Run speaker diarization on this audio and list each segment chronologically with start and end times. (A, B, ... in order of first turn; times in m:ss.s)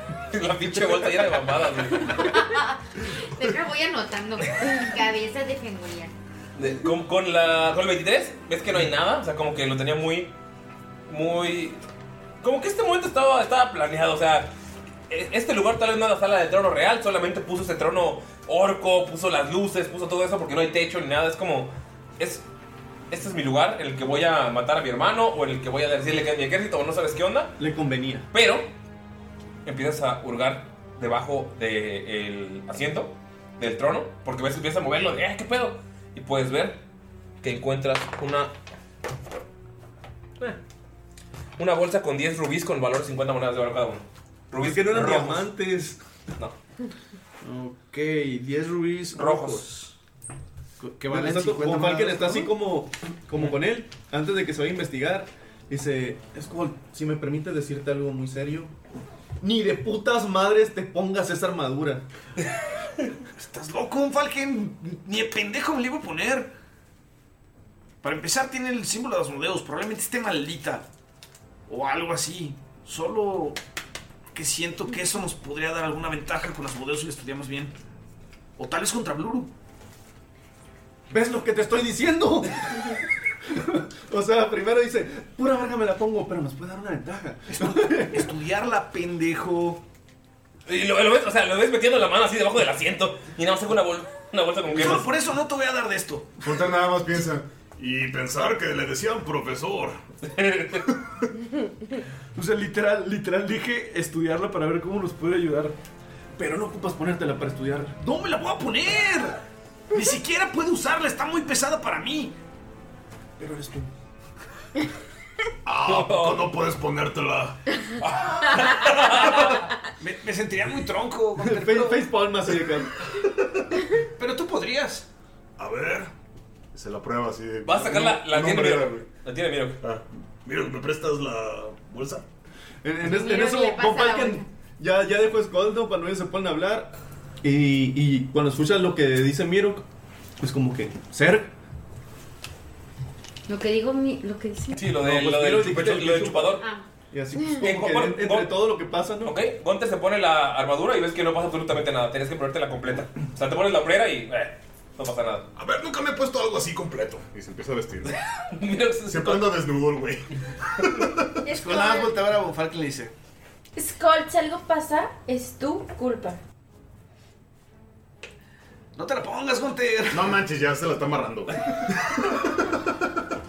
0:00.3-0:02.3 A
0:02.1-0:06.1 B
0:06.6-0:10.3 A
0:11.1-0:11.8 A
0:12.4-0:14.5 A
0:15.1-0:22.4 A
0:23.1-0:27.5 A
0:27.6-0:28.2 C
0:28.3-0:28.7 A
0:29.6-0:36.8 A
0:37.4-0:38.5 A
0:41.6-0:45.5 A
0:44.6-0:46.0 C
0:47.4-0:49.9 D
0:49.1-0:49.6 A
0:50.8-0:52.5 D
0:51.0-0:58.7 C
0:59.4-1:02.0 C
1:03.3-1:06.5 D
1:08.0-1:10.8 D
1:11.7-1:13.6 D
1:14.3-1:17.7 D
1:18.6-1:19.5 D
1:21.1-1:28.3 C
1:27.5-1:29.8 D
1:30.7-1:35.1 A
1:34.7-1:36.4 D
1:36.4-1:37.5 E
1:37.8-1:40.0 F
1:40.3-1:40.9 A
1:42.4-1:44.1 D
1:42.4-1:45.7 C
1:46.4-1:48.0 C
1:48.0-1:52.3 D
1:53.4-1:53.8 D
1:53.4-1:53.8 C
1:55.6-1:57.6 F
1:55.8-1:56.4 A
1:58.0-1:59.7 A
2:00.0-2:02.1 D
2:01.4-2:03.0 C
2:04.2-2:05.0 D
2:05.6-2:06.1 F
2:06.7-2:09.1 E
2:07.6-2:09.8 A
2:10.4-2:12.2 F
2:12.8-2:16.9 C
2:13.0-2:14.4 B
2:17.4-2:19.8 C
2:20.4-2:21.5 C
2:23.5-2:24.8 B
2:24.7-2:26.6 A
2:25.0-2:26.6 C
2:27.1-2:29.3 C
2:27.6-2:28.5 A
2:29.2-2:35.4 A
2:35.5-2:37.3 F
2:37.3-2:38.1 E
2:38.5-2:39.5 A
2:39.1-2:40.2 E
2:40.8-2:41.3 E
2:41.4-2:42.2 G
2:41.5-2:43.1 D
2:43.8-2:46.4 G
2:48.9-2:50.4 D
2:50.1-2:53.2 E